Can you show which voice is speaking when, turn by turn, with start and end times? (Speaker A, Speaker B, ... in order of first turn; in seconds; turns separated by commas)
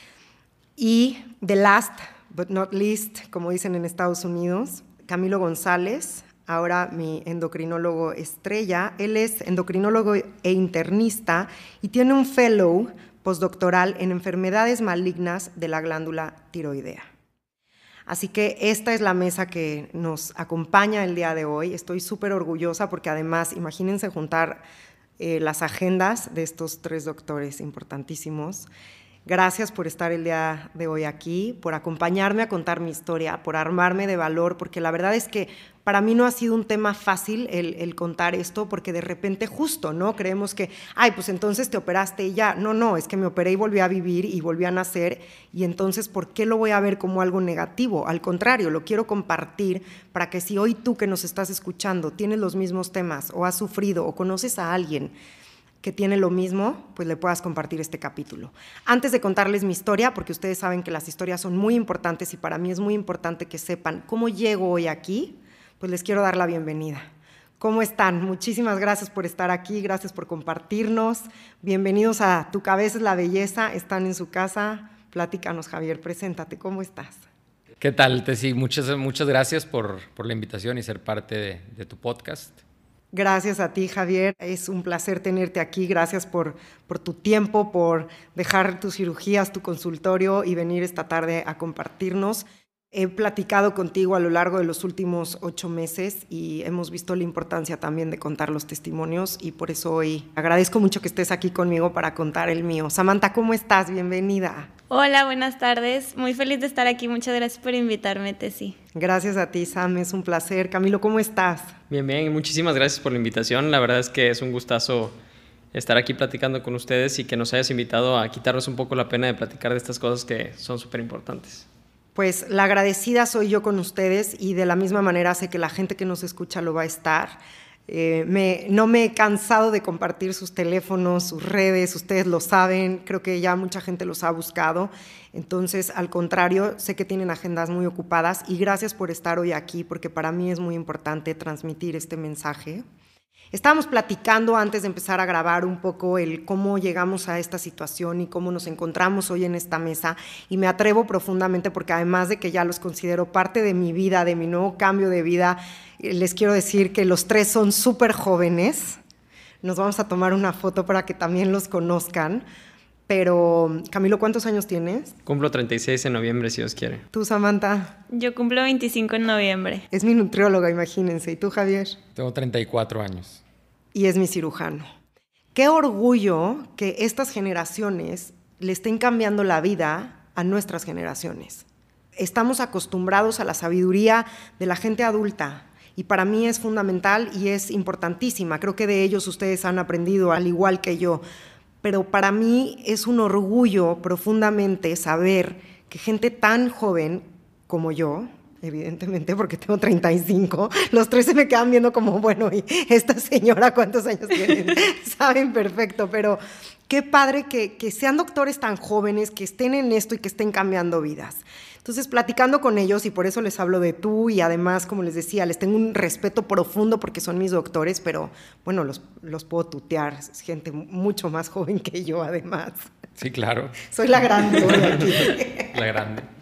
Speaker A: 0.8-17.1, Speaker A: 18.1-24.6, Speaker A: 25.2-28.7, Speaker A: 29.3-55.1, Speaker A: 55.8-67.1, Speaker A: 67.6-77.2, Speaker B: 77.8-82.6, Speaker A: 83.1-104.7, Speaker C: 104.9-108.8, Speaker A: 109.0-111.8, Speaker D: 111.9-115.2, Speaker D: 115.7-121.7, Speaker A: 122.2-142.8, Speaker A: 143.5-159.0, Speaker A: 159.6-162.4, Speaker A: 163.1-165.2, Speaker D: 165.3-167.0, Speaker A: 167.1-168.0, Speaker C: 168.1-169.8, Speaker A: 169.9-172.0, Speaker B: 172.2-173.4, Speaker A: 173.9-174.9, Speaker A: 175.6-191.2, Speaker A: 191.8-222.8, Speaker B: 223.2-223.8, Speaker A: 223.9-225.7, Speaker B: 224.4-226.3